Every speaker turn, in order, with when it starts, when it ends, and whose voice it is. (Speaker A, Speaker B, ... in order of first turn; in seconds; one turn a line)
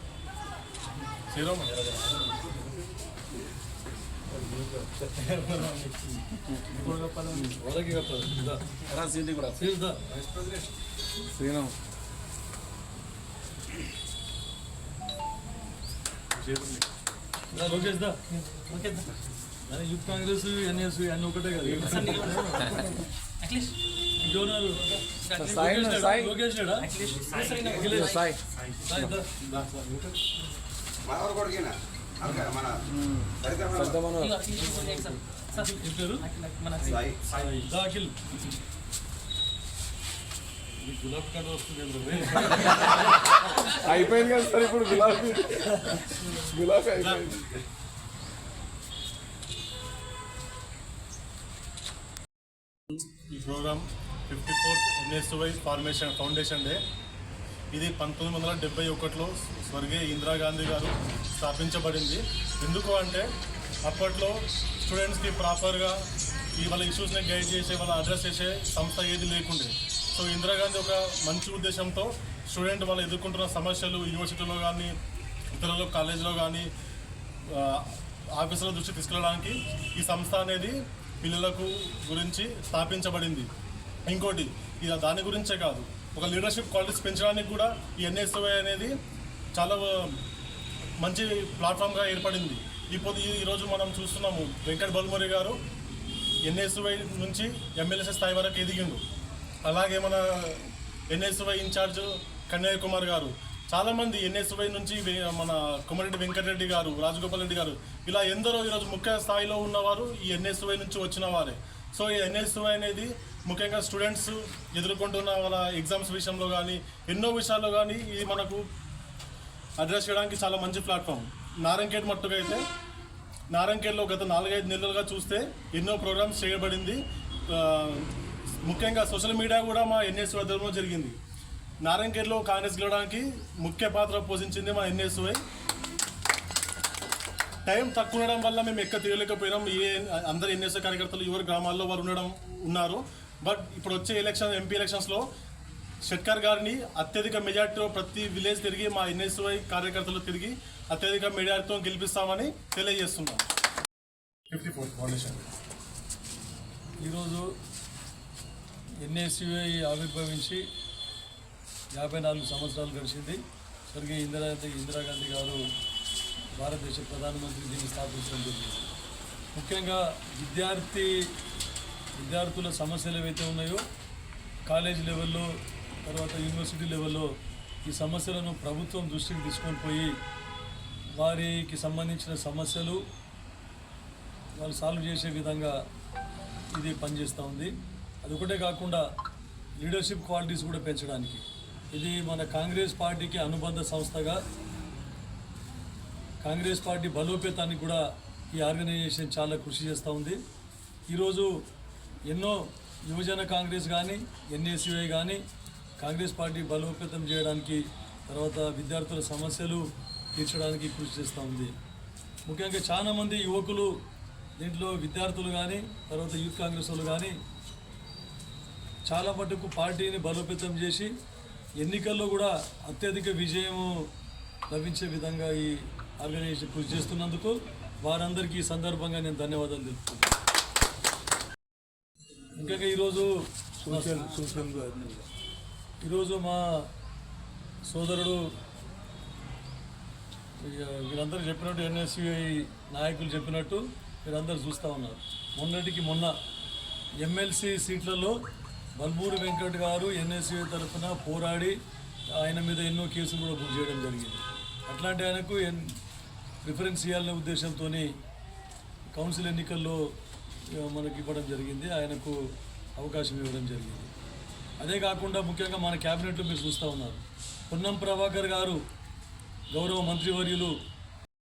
Speaker A: 1.3-1.8
Speaker B: 1.8-2.5
Speaker A: 5.1-6.2
Speaker C: 7.3-8.6
Speaker D: 8.9-9.6
Speaker C: 9.6-10.0
Speaker E: 10.1-10.7
Speaker D: 11.3-11.8
Speaker C: 16.4-16.8
Speaker C: 17.5-18.2
Speaker B: 18.6-19.1
Speaker C: 19.7-22.7
Speaker D: 21.8-22.8
Speaker B: 21.9-22.9
Speaker B: 23.4-23.8
Speaker C: 24.2-26.9
Speaker B: 24.9-25.4
Speaker D: 25.4-26.4
Speaker B: 26.8-28.2
Speaker A: 27.4-27.7
Speaker C: 27.7-28.2
Speaker D: 27.8-28.4
Speaker C: 28.8-29.3
Speaker A: 29.5-29.9
Speaker E: 31.0-32.8
Speaker D: 33.0-34.4
Speaker E: 33.4-34.0
Speaker B: 34.1-37.5
Speaker C: 34.7-36.2
Speaker E: 36.9-37.2
Speaker C: 37.3-38.1
Speaker C: 40.8-43.1
Speaker D: 43.7-47.6
Speaker A: 47.0-47.4
Speaker A: 53.3-56.8
Speaker A: 57.7-63.2
Speaker A: 63.9-66.0
Speaker A: 66.5-74.9
Speaker A: 75.5-76.7
Speaker A: 77.5-83.5
Speaker A: 84.0-88.9
Speaker A: 89.5-90.1
Speaker A: 91.0-95.5
Speaker A: 96.5-99.0
Speaker A: 99.6-118.6
Speaker A: 119.8-122.6
Speaker A: 123.5-127.0
Speaker A: 127.5-128.1
Speaker A: 128.7-131.2
Speaker A: 131.8-135.4
Speaker A: 137.7-145.2
Speaker A: 146.1-153.4
Speaker A: 154.5-155.4
Speaker C: 157.0-157.5
Speaker C: 159.0-160.6
Speaker C: 161.9-163.4
Speaker C: 163.9-165.6
Speaker C: 166.6-168.9
Speaker C: 169.5-171.3
Speaker C: 172.2-173.8
Speaker C: 174.7-175.5
Speaker C: 176.0-177.3
Speaker C: 177.8-180.1
Speaker C: 181.2-183.0
Speaker C: 184.6-185.8
Speaker C: 186.7-187.7
Speaker C: 188.2-189.0
Speaker C: 189.8-194.4
Speaker C: 196.4-200.4
Speaker C: 201.1-201.5
Speaker C: 202.3-205.4
Speaker C: 206.0-209.8
Speaker C: 210.3-211.7
Speaker C: 212.4-213.9
Speaker C: 214.6-217.3
Speaker C: 219.1-221.1
Speaker C: 221.8-224.1
Speaker C: 224.7-230.3
Speaker C: 232.5-234.4
Speaker D: 233.9-235.2
Speaker C: 236.0-236.9
Speaker C: 237.8-238.4
Speaker C: 240.6-246.3
Speaker C: 247.2-248.4
Speaker C: 249.0-251.8
Speaker C: 252.4-255.9
Speaker C: 256.6-258.1
Speaker C: 259.1-260.0
Speaker C: 260.8-262.4
Speaker C: 263.0-264.1
Speaker C: 264.8-268.8
Speaker C: 269.7-270.8